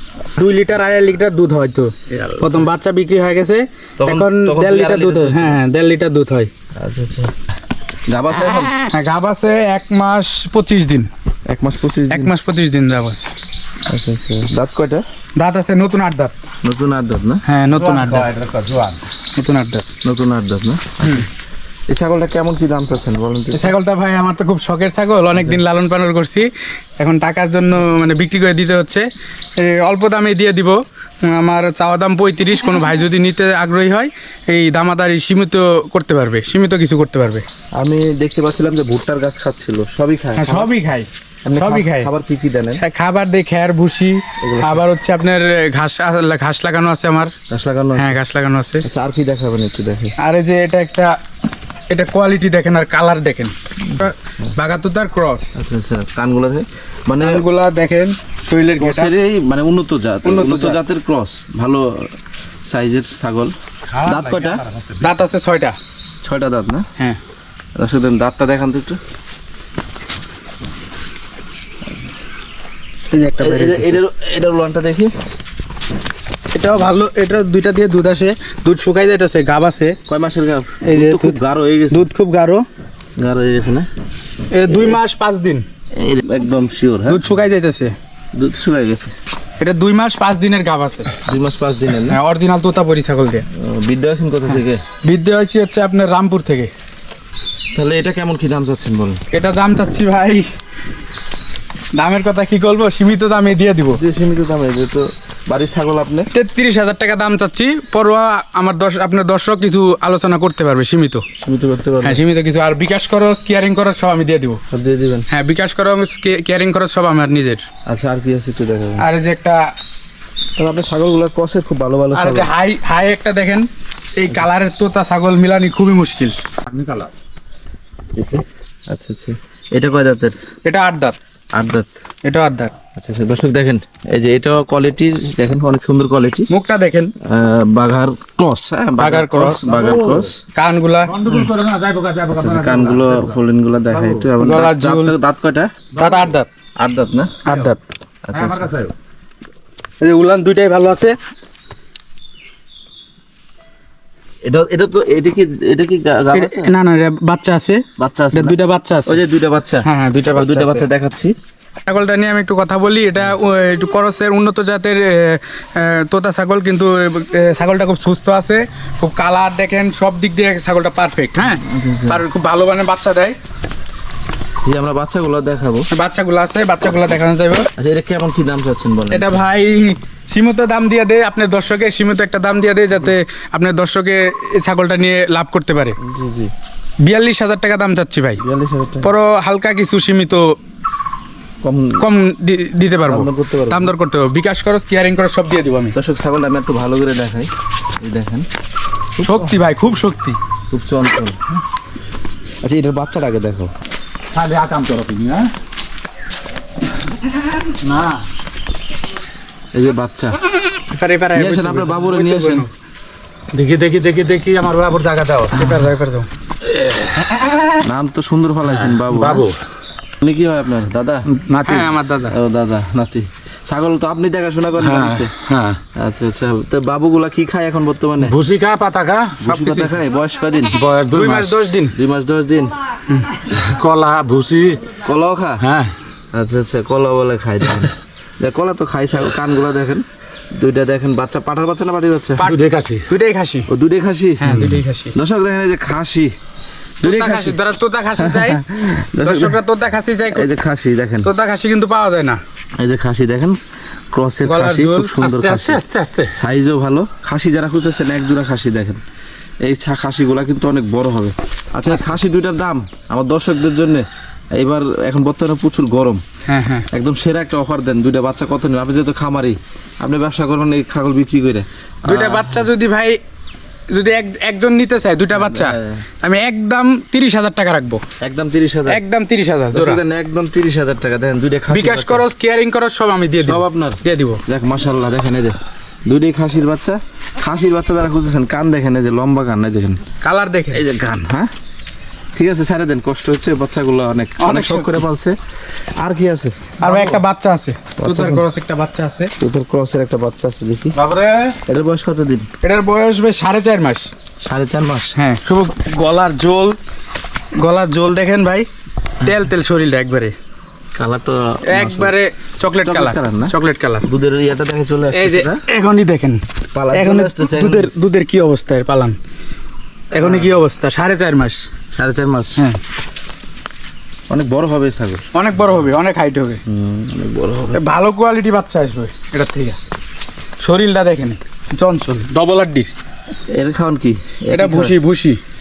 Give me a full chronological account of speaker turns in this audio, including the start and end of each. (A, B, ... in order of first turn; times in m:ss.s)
0:00.3-0:06.5 A
0:04.0-0:05.6 B
0:06.8-0:07.3 B
0:08.1-0:08.8 B
0:08.9-0:11.1 A
0:11.5-0:12.3 B
0:12.1-0:13.3 A
0:13.9-0:15.0 B
0:15.4-0:16.4 A
0:16.6-0:17.4 B
0:17.5-0:18.3 A
0:17.7-0:19.1 C
0:19.3-0:19.8 A
0:20.0-0:21.3 B
0:21.0-0:21.3 A
0:21.9-0:23.7 B
0:23.5-0:37.4 A
0:37.8-0:40.7 B
0:40.4-0:42.1 A
0:41.4-0:42.8 B
0:42.7-0:47.3 A
0:44.4-0:44.8 B
0:47.5-0:48.2 B
0:48.0-0:48.8 A
0:48.8-0:50.1 B
0:50.2-0:51.2 A
0:51.9-0:55.5 A
0:53.8-0:54.5 B
0:55.5-0:57.4 B
0:57.2-0:59.1 A
0:58.8-1:04.7 B
1:00.2-1:00.8 A
1:03.9-1:05.0 C
1:05.0-1:05.8 A
1:06.2-1:06.9 B
1:07.8-1:09.0 B
1:11.9-1:12.2 B
1:13.1-1:14.0 A
1:13.4-1:15.1 B
1:16.5-1:20.0 A
1:20.1-1:22.1 B
1:20.8-1:21.4 A
1:21.9-1:22.7 A
1:23.2-1:23.9 B
1:24.5-1:25.7 A
1:25.9-1:27.2 B
1:27.1-1:28.0 A
1:28.3-1:29.1 B
1:29.6-1:31.2 A
1:31.2-1:32.2 B
1:32.1-1:33.4 A
1:33.5-1:34.8 B
1:35.0-1:36.7 A
1:37.7-1:39.2 B
1:39.3-1:40.5 A
1:42.0-1:44.0 A
1:43.9-1:46.3 B
1:46.3-1:51.2 A
1:51.4-1:52.2 B
1:52.0-1:54.6 A
1:54.7-1:55.3 B
1:55.3-1:57.6 A
1:57.9-1:59.1 B
1:59.0-1:59.7 A
2:00.6-2:02.5 B
2:02.1-2:06.3 A
2:06.7-2:07.1 C
2:08.1-2:10.4 B
2:10.6-2:11.2 A
2:11.5-2:11.9 B
2:12.2-2:12.7 A
2:12.9-2:16.5 B
2:16.5-2:17.1 A
2:17.2-2:20.4 B
2:19.0-2:19.8 A
2:19.7-2:20.3 C
2:20.5-2:21.5 A
2:21.1-2:23.3 C
2:22.3-2:25.8 B
2:24.0-2:24.3 C
2:24.4-2:25.1 A
2:25.9-2:26.2 C
2:25.9-2:26.5 A
2:26.8-2:27.5 B
2:27.4-2:27.8 A
2:28.2-2:28.8 B
2:28.3-2:28.9 C
2:30.0-2:31.2 A
2:34.4-2:36.7 B
2:36.3-2:39.2 A
2:38.0-2:38.6 B
2:39.1-2:41.3 B
2:39.8-2:40.8 A
2:41.8-2:53.4 A
2:51.4-2:52.2 B
2:54.6-2:55.9 B
2:55.9-2:57.7 A
2:57.8-2:59.4 B
2:59.1-3:06.0 A
3:06.0-3:06.5 B
3:07.0-3:08.4 A
3:08.4-3:09.1 B
3:09.0-3:10.5 A
3:11.6-3:12.0 B
3:12.0-3:15.9 A
3:13.0-3:13.9 B
3:15.9-3:18.5 B
3:19.2-3:19.6 B
3:19.2-3:20.4 A
3:20.7-3:21.6 B
3:22.6-3:23.7 B
3:24.3-3:25.5 C
3:27.6-3:28.2 C
3:29.7-3:30.4 B
3:30.9-3:32.7 A
3:31.3-3:32.7 B
3:33.5-3:35.9 C
3:35.5-3:36.3 A
3:36.6-3:37.8 C
3:37.7-3:39.5 B
3:38.7-3:39.6 C
3:40.2-3:45.4 B
3:41.3-3:41.9 C
3:41.5-3:42.3 A
3:44.8-3:45.8 C
3:45.9-3:48.4 B
3:48.2-3:49.5 C
3:49.4-3:50.8 B
3:49.5-3:50.0 A
3:50.7-3:51.7 C
3:51.1-3:51.9 A
3:51.9-3:52.7 B
3:53.1-3:53.4 A
3:53.4-3:55.0 C
3:54.9-3:55.7 B
3:55.6-3:56.0 C
3:56.3-4:02.4 B
4:02.4-4:03.7 A
4:02.4-4:03.1 C
4:03.7-4:06.3 B
4:04.4-4:05.1 A
4:07.0-4:07.6 B
4:07.0-4:10.5 A
4:08.2-4:09.6 B
4:10.3-4:11.3 B
4:11.2-4:12.4 A
4:12.8-4:13.6 B
4:14.1-4:19.0 B
4:14.4-4:16.2 A
4:15.2-4:16.3 C
4:19.6-4:24.0 B
4:24.6-4:26.2 B
4:26.5-4:26.9 A
4:26.9-4:32.7 B
4:32.1-4:33.2 A
4:33.9-4:38.0 A
4:35.3-4:36.0 B
4:38.2-4:39.0 B
4:38.9-4:40.0 A
4:39.7-4:42.2 B
4:41.7-4:44.4 A
4:43.4-4:50.0 B
4:50.2-4:50.8 A
4:50.7-4:51.5 B
4:52.3-4:57.2 B
4:54.4-4:55.0 A
4:56.8-4:59.3 A
4:58.0-4:58.4 B
4:59.4-5:01.0 B
5:01.0-5:01.6 C
5:01.6-5:02.5 B
5:02.6-5:04.1 A
5:04.4-5:05.2 B
5:05.2-5:06.8 A
5:07.6-5:08.7 A
5:09.2-5:10.3 A
5:10.9-5:12.2 B
5:11.7-5:14.1 A
5:12.8-5:15.6 B
5:15.1-5:19.2 A
5:16.7-5:17.9 B
5:20.1-5:21.7 A
5:20.2-5:20.6 B
5:21.9-5:22.6 B
5:24.3-5:25.2 B
5:25.3-5:26.6 A
5:26.7-5:27.8 B
5:27.7-5:29.8 A
5:30.6-5:32.9 A
5:33.5-5:35.0 B
5:34.5-5:35.4 A